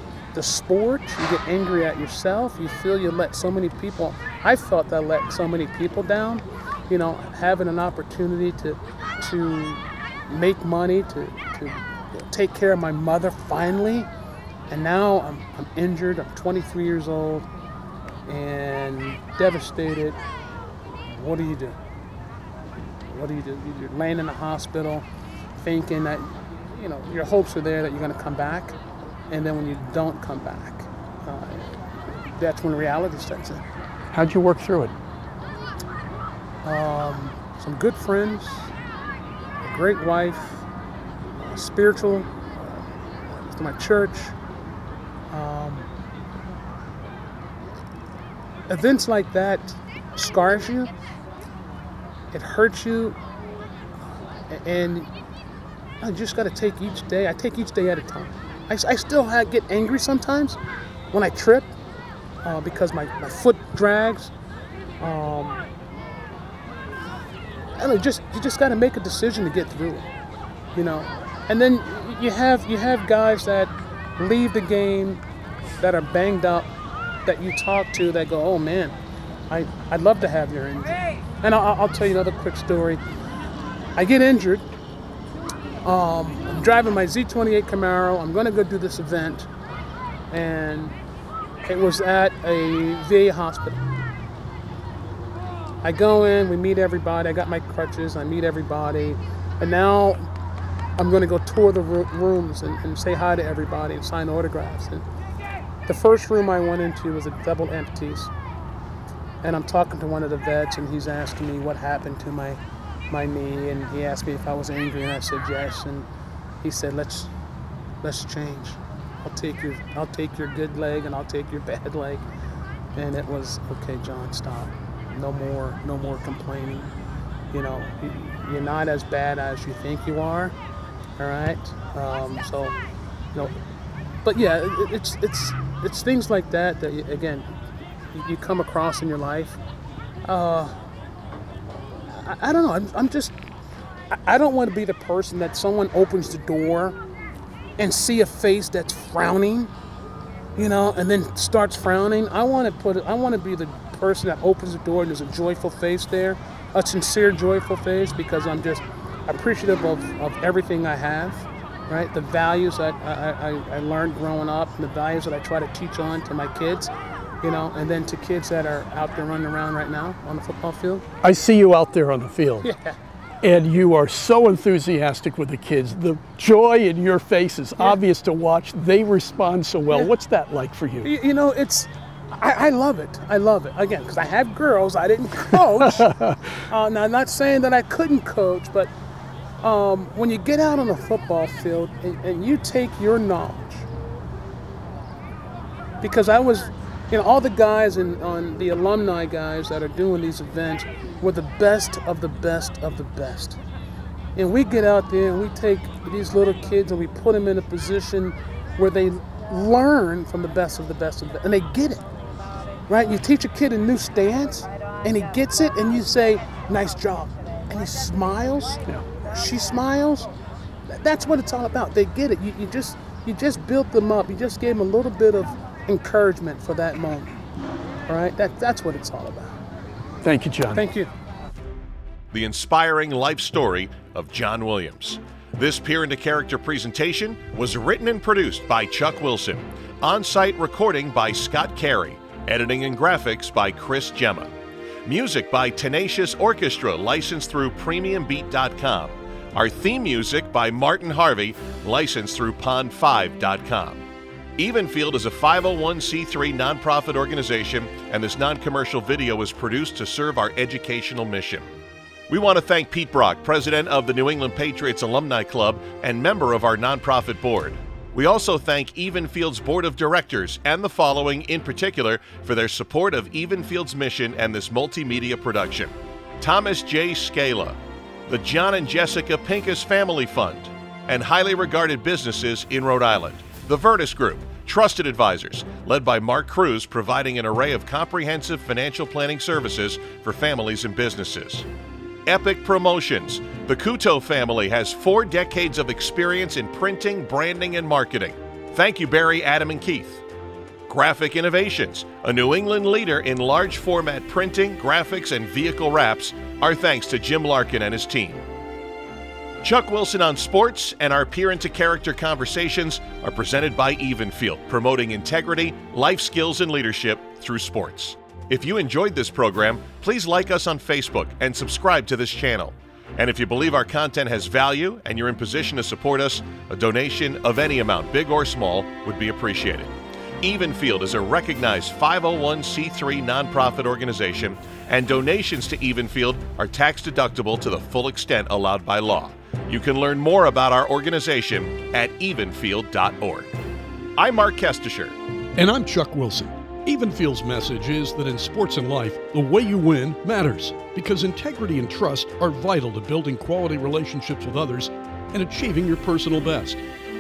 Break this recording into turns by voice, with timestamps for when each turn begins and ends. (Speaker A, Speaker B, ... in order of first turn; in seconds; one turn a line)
Speaker A: 0.3-14.1
Speaker A: 14.7-17.5
Speaker A: 18.3-20.2
Speaker A: 21.1-21.8
Speaker A: 23.1-25.1
Speaker A: 25.6-28.8
Speaker A: 29.3-31.8
Speaker A: 32.4-33.6
Speaker B: 34.1-35.0
Speaker A: 36.6-38.7
Speaker A: 39.6-40.6
Speaker A: 41.4-44.4
Speaker A: 45.3-45.9
Speaker A: 48.7-50.9
Speaker A: 52.3-53.2
Speaker A: 54.5-55.1
Speaker A: 56.0-60.6
Speaker A: 61.1-61.7
Speaker A: 62.4-64.3
Speaker A: 65.0-65.6
Speaker A: 67.8-70.1
Speaker A: 70.8-75.2
Speaker A: 75.8-76.7
Speaker A: 77.3-79.0
Speaker A: 79.5-83.0
Speaker A: 84.0-84.7
Speaker A: 85.8-89.5
Speaker A: 90.3-91.0
Speaker A: 91.6-93.9
Speaker A: 95.8-100.2
Speaker A: 101.0-105.1
Speaker A: 105.9-108.3
Speaker A: 109.4-112.6
Speaker A: 113.1-116.1
Speaker A: 116.6-117.3
Speaker A: 118.0-122.2
Speaker A: 123.0-126.9
Speaker A: 127.5-130.6
Speaker A: 131.2-132.8
Speaker A: 134.2-137.5
Speaker A: 138.1-139.6
Speaker A: 140.2-140.8
Speaker A: 142.0-143.3
Speaker A: 144.1-147.0
Speaker A: 147.8-149.7
Speaker A: 150.6-166.9
Speaker A: 167.4-171.1
Speaker B: 171.2-172.7
Speaker A: 172.6-173.0
Speaker B: 173.4-181.1
Speaker A: 181.0-188.9
Speaker B: 185.5-186.4
Speaker A: 189.6-193.9
Speaker A: 196.0-203.6
Speaker A: 204.4-212.1
Speaker A: 212.9-220.3
Speaker A: 220.9-227.4
Speaker A: 228.1-229.6
Speaker B: 230.2-230.8
Speaker A: 230.8-231.1
Speaker C: 232.3-244.5
Speaker C: 245.1-254.0
Speaker C: 254.6-261.7
Speaker C: 262.3-291.7
Speaker C: 292.3-300.2
Speaker C: 300.9-308.4
Speaker C: 309.6-343.5
Speaker C: 344.2-345.1
Speaker B: 345.6-356.8